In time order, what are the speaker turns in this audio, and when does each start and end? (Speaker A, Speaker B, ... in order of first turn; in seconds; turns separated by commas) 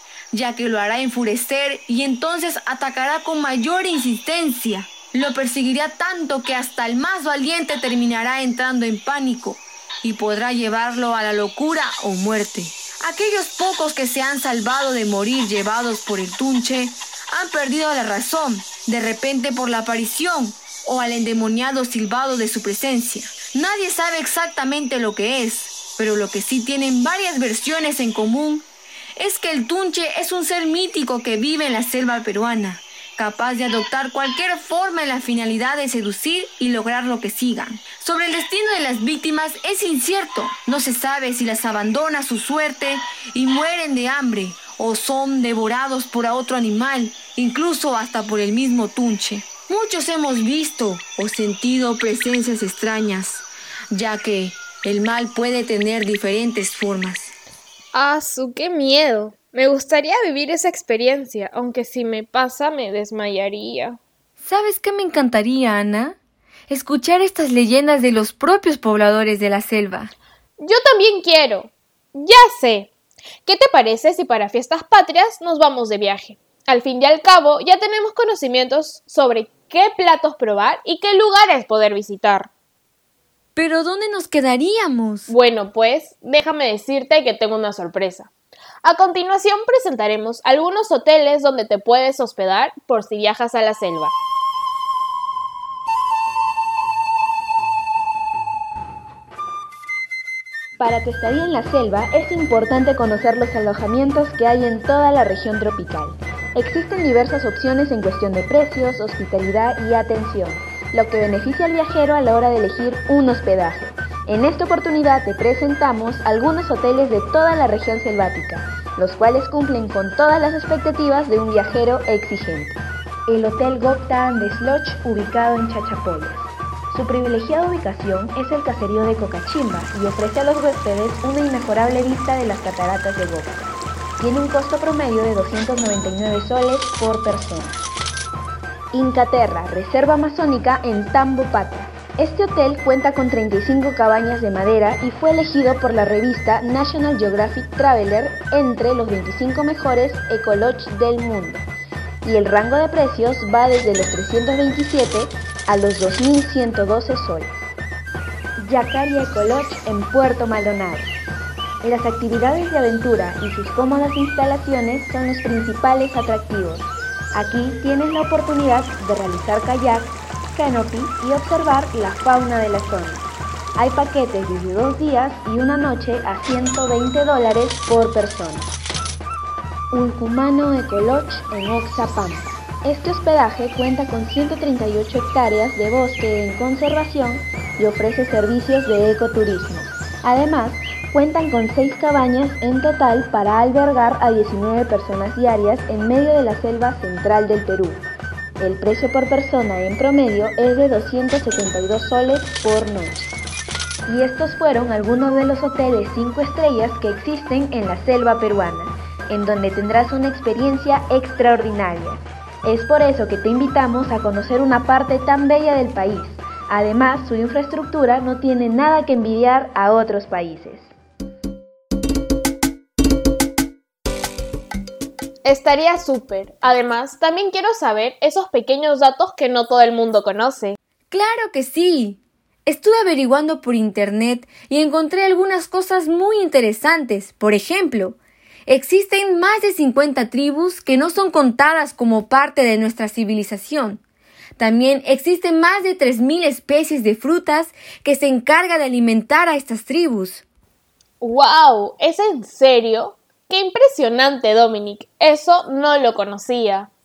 Speaker A: 0.3-28.7, Speaker A: 29.2-57.3, Speaker B: 57.9-64.0, Speaker A: 64.4-66.2, Speaker A: 66.7-70.1, Speaker B: 70.6-72.9, Speaker B: 73.5-82.5, Speaker A: 83.5-85.3, Speaker B: 85.3-88.3, Speaker B: 88.8-94.1, Speaker C: 100.8-137.8, Speaker C: 138.9-151.7, Speaker C: 152.2-157.6, Speaker C: 158.6-161.2, Speaker C: 161.8-178.7, Speaker C: 179.9-198.1, Speaker C: 198.6-203.3, Speaker C: 204.1-220.9, Speaker B: 225.4-230.8, Speaker A: 231.1-244.0, Speaker A: 244.6-250.4, Speaker B: 251.2-256.9